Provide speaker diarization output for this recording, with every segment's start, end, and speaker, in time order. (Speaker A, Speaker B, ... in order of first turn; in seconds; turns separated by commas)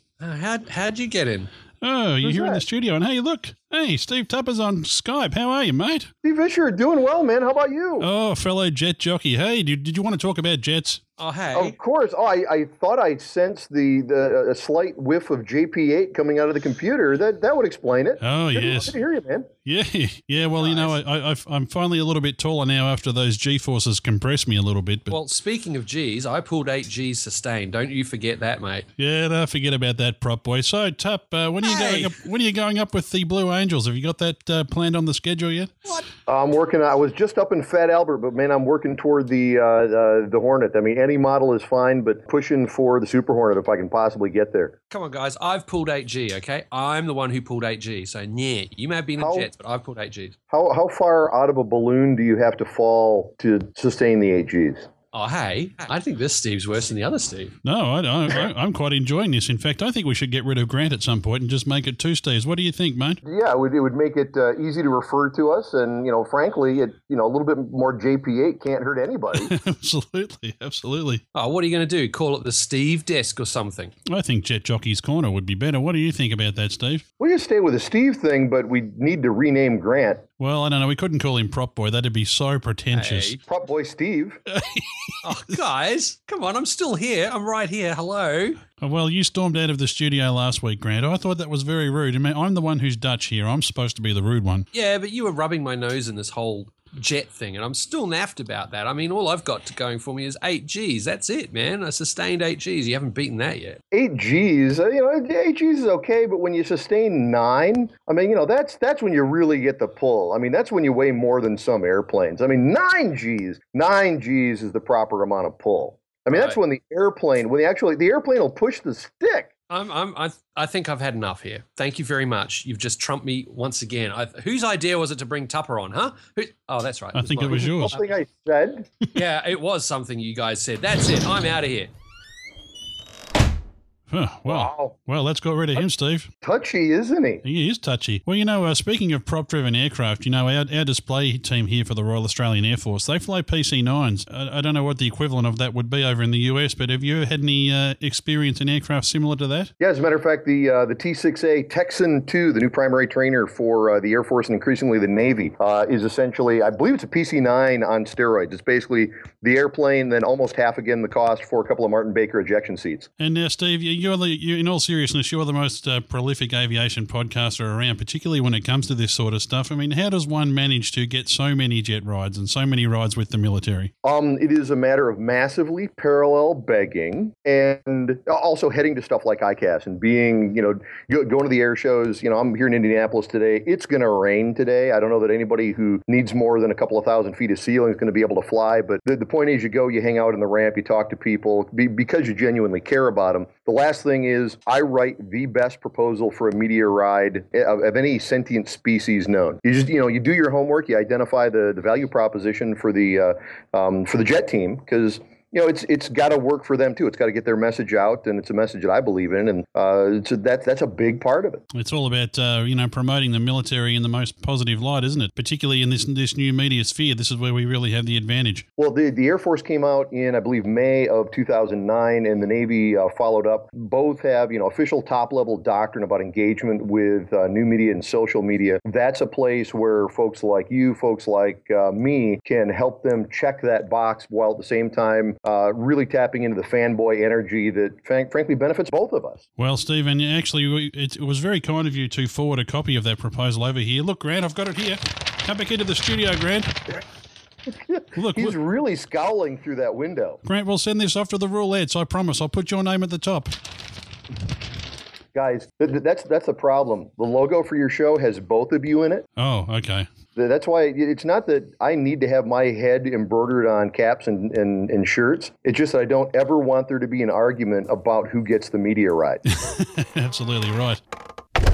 Speaker A: 0.2-1.5, Speaker B: 1.8-6.1, Speaker C: 2.2-2.6, Speaker C: 6.2-8.1, Speaker B: 8.0-11.0, Speaker A: 11.2-11.8, Speaker C: 11.5-19.5, Speaker B: 18.2-19.0, Speaker B: 19.7-25.2, Speaker A: 20.6-21.0, Speaker A: 25.1-28.9, Speaker B: 29.0-36.0, Speaker A: 31.6-32.2, Speaker C: 36.3-44.8, Speaker A: 44.9-50.4, Speaker C: 49.2-49.5, Speaker C: 50.5-54.9, Speaker A: 55.1-57.6, Speaker B: 57.6-63.2, Speaker C: 63.2-69.5, Speaker B: 69.3-71.2, Speaker A: 71.3-73.9, Speaker B: 74.1-77.0, Speaker C: 77.2-80.2, Speaker B: 80.4-83.4, Speaker A: 82.9-83.4, Speaker C: 83.4-84.4, Speaker B: 84.5-85.2, Speaker A: 85.2-88.6, Speaker B: 88.8-94.7, Speaker A: 94.7-103.8, Speaker C: 103.9-119.5, Speaker A: 116.3-116.6, Speaker A: 119.7-128.0, Speaker B: 127.2-128.0, Speaker C: 127.5-128.9, Speaker A: 129.2-131.9, Speaker B: 134.1-136.3, Speaker C: 134.5-134.9, Speaker C: 136.4-137.4, Speaker B: 137.4-149.7, Speaker C: 149.8-163.1, Speaker B: 163.2-173.9, Speaker C: 174.0-211.6, Speaker B: 211.7-218.7, Speaker C: 218.8-239.4, Speaker B: 239.6-246.7, Speaker C: 247.7-250.4, Speaker B: 248.2-248.6, Speaker B: 250.4-253.5, Speaker C: 255.3-259.2, Speaker B: 259.4-260.1, Speaker C: 260.4-269.4, Speaker B: 269.6-271.0